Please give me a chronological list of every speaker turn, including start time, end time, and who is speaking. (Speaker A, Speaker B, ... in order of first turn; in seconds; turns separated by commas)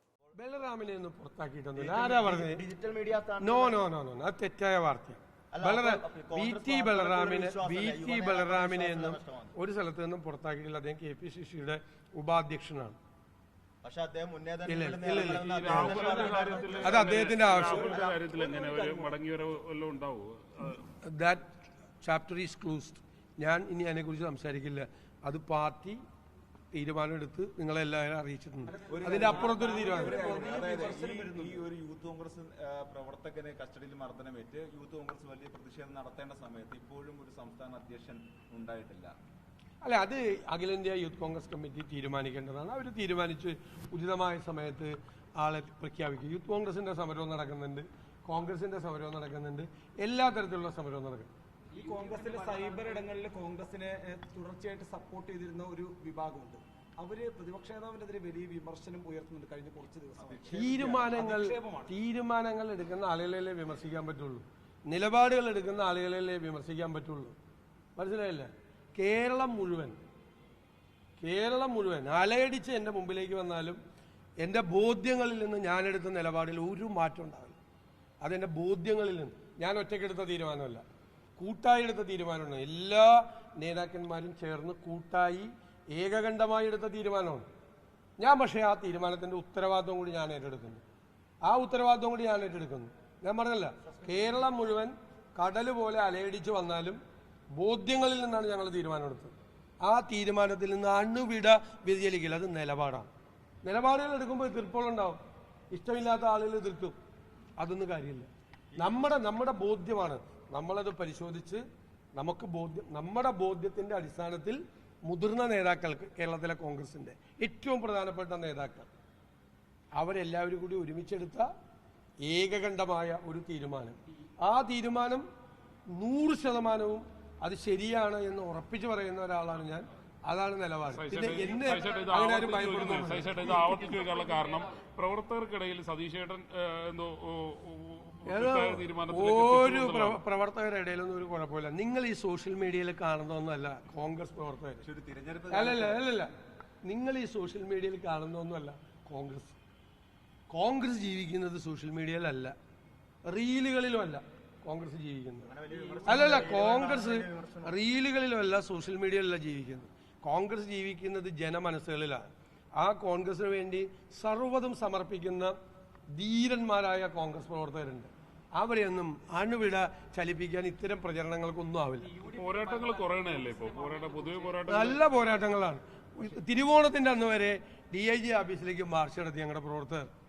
Speaker A: 0.3-2.6, Speaker B: 1.8-2.5, Speaker C: 2.5-3.4, Speaker A: 3.4-13.0, Speaker B: 3.4-3.7, Speaker C: 5.5-9.4, Speaker B: 5.8-6.4, Speaker C: 13.8-14.9, Speaker B: 14.2-18.8, Speaker A: 14.7-16.1, Speaker D: 15.2-20.8, Speaker A: 16.8-17.9, Speaker A: 21.0-21.4, Speaker A: 22.0-26.0, Speaker A: 26.7-30.2, Speaker E: 28.7-31.6, Speaker B: 28.9-39.1, Speaker A: 39.8-51.3, Speaker E: 51.7-61.9, Speaker B: 60.2-61.1, Speaker A: 60.5-67.3, Speaker A: 68.0-70.0, Speaker A: 71.2-73.8, Speaker A: 74.4-77.6, Speaker A: 78.2-80.8, Speaker A: 81.4-87.5, Speaker A: 88.2-90.8, Speaker A: 91.4-97.0, Speaker A: 97.5-103.1, Speaker A: 103.6-105.2, Speaker A: 105.7-107.0, Speaker A: 107.6-111.6, Speaker A: 112.2-118.9, Speaker A: 120.0-121.5, Speaker A: 122.2-125.2, Speaker A: 125.9-133.9, Speaker D: 130.9-140.2, Speaker A: 138.2-144.8, Speaker B: 144.8-146.0, Speaker A: 145.5-146.3, Speaker A: 146.8-149.6, Speaker A: 150.5-152.5, Speaker A: 153.3-155.5, Speaker B: 155.5-157.5, Speaker A: 156.1-165.5, Speaker A: 166.1-172.2, Speaker D: 172.2-175.0, Speaker A: 174.7-180.1